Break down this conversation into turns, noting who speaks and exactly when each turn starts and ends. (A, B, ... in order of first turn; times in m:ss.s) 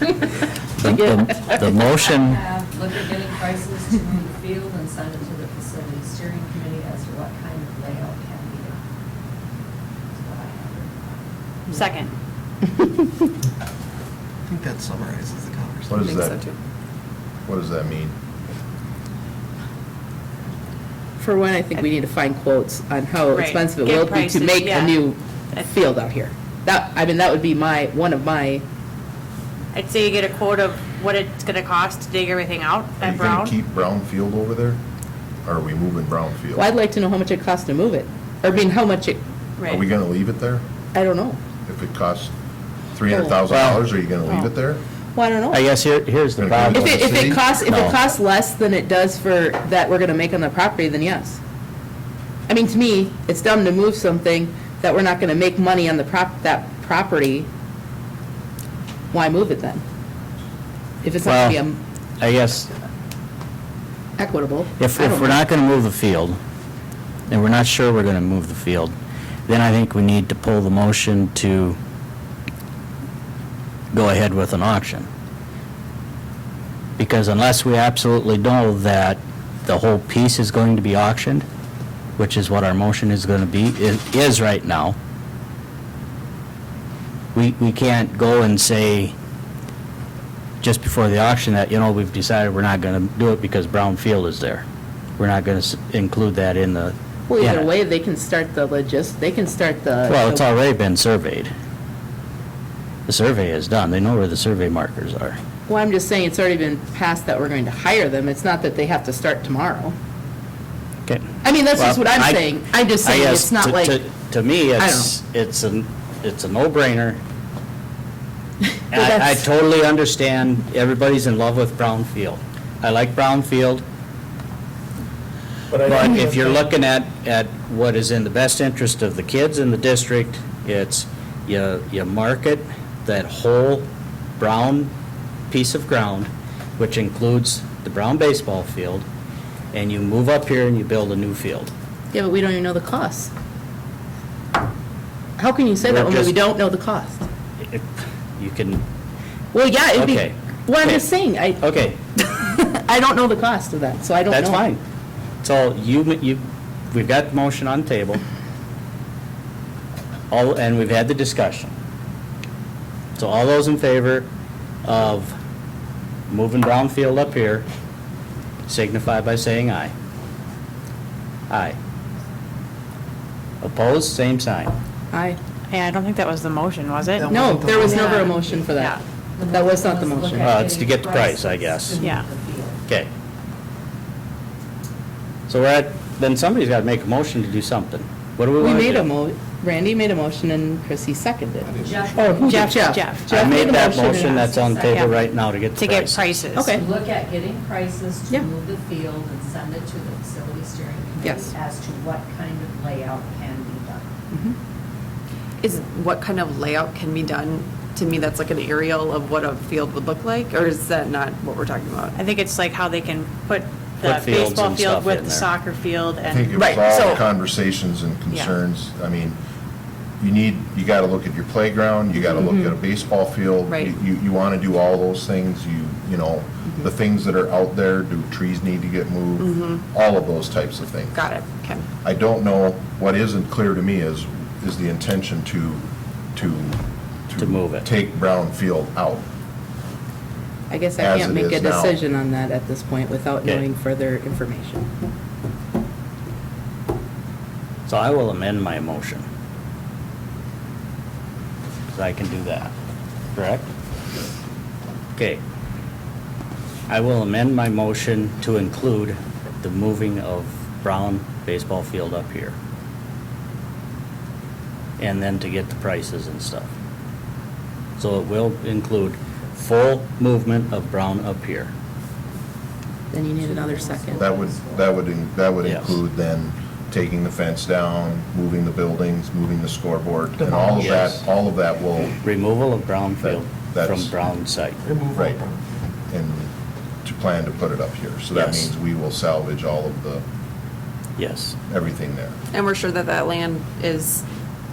0:00.8-0:02.4 A
0:01.4-0:08.8 B
0:10.1-0:11.9 B
0:11.8-0:12.1 C
0:14.5-0:16.2 D
0:15.9-0:16.4 E
0:16.0-0:16.6 F
0:17.5-0:18.2 E
0:21.2-0:28.6 G
0:23.3-0:25.0 C
0:29.7-0:33.5 C
0:33.0-0:34.8 E
0:35.4-0:36.7 E
0:36.6-0:39.2 G
0:39.6-0:40.6 E
0:40.9-0:41.4 G
0:41.7-0:42.3 E
0:42.9-0:44.8 E
0:43.1-0:43.4 G
0:43.5-0:43.8 A
0:45.2-0:45.6 G
0:45.5-0:48.0 A
0:46.4-0:47.4 E
0:46.7-0:51.4 G
0:52.5-0:57.5 G
0:59.1-0:59.8 G
1:01.0-1:01.8 G
1:01.2-1:01.6 A
1:02.2-1:02.7 A
1:04.2-1:05.4 G
1:04.8-1:06.4 A
1:07.3-1:09.0 A
1:09.5-1:11.8 A
1:13.9-1:15.1 A
1:17.0-1:21.5 A
1:22.2-1:25.0 A
1:27.3-1:29.2 A
1:30.6-1:34.6 A
1:35.2-1:37.7 A
1:37.3-1:40.5 G
1:40.1-1:41.5 A
1:43.1-1:45.4 A
1:45.7-1:50.0 G
1:51.0-1:57.2 A
1:51.4-1:54.0 G
1:54.8-1:55.1 G
1:58.9-2:03.8 A
1:58.9-1:59.4 G
2:05.7-2:06.5 D
2:05.8-2:13.9 A
2:14.4-2:14.9 A
2:15.5-2:19.1 A
2:19.7-2:21.7 A
2:22.1-2:23.3 G
2:25.4-2:27.2 G
2:25.8-2:26.4 A
2:27.6-2:28.8 A
2:29.5-2:34.6 G
2:29.9-2:31.1 A
2:31.6-2:32.0 A
2:34.3-2:34.8 A
2:35.4-2:38.2 A
2:40.3-2:41.7 A
2:43.2-2:44.3 A
2:44.8-2:45.3 A
2:46.3-2:47.7 A
2:48.7-2:49.9 A
2:51.5-2:51.8 A
2:53.6-2:54.8 A
2:55.1-2:55.4 G
2:55.7-2:57.3 C
2:57.1-2:58.4 D
2:57.3-2:59.0 G
2:57.6-2:58.5 B
2:59.4-3:02.8 B
2:59.5-3:00.5 G
3:00.4-3:02.0 A
3:05.5-3:09.1 A
3:08.6-3:14.4 G
3:11.6-3:12.3 D
3:11.8-3:12.9 B
3:12.5-3:13.4 C
3:13.3-3:16.4 A
3:13.8-3:15.1 B
3:15.8-3:16.7 C
3:16.6-3:16.8 G
3:16.7-3:24.1 B
3:21.2-3:21.5 G
3:25.6-3:32.2 F
3:32.2-3:36.6 C
3:34.0-3:35.5 A
3:36.2-3:39.4 E
3:36.6-3:37.2 F
3:36.6-3:37.2 G
3:40.2-3:51.2 E
3:42.4-3:42.8 G
3:49.4-3:49.8 F
3:51.1-3:51.9 F
3:52.0-3:59.2 E
3:57.4-3:57.9 A
4:00.7-4:04.9 G
4:01.0-4:02.0 E
4:07.9-4:09.2 A
4:11.9-4:12.7 A
4:13.4-4:13.6 A
4:15.2-4:15.4 A
4:16.9-4:22.6 A
4:25.0-4:26.7 A
4:28.0-4:31.7 A
4:33.1-4:34.2 G
4:33.4-4:35.0 B
4:34.2-4:42.2 E
4:35.6-4:36.0 A
4:40.4-4:41.1 D
4:40.8-4:41.3 A
4:42.1-4:44.8 A
4:43.2-4:44.1 E
4:44.8-4:45.8 D
4:45.2-4:45.4 E
4:46.1-4:46.5 E
4:47.0-4:50.2 E
4:48.3-4:48.7 A
4:51.2-4:51.6 A
4:51.7-4:52.4 E
4:52.5-4:54.2 F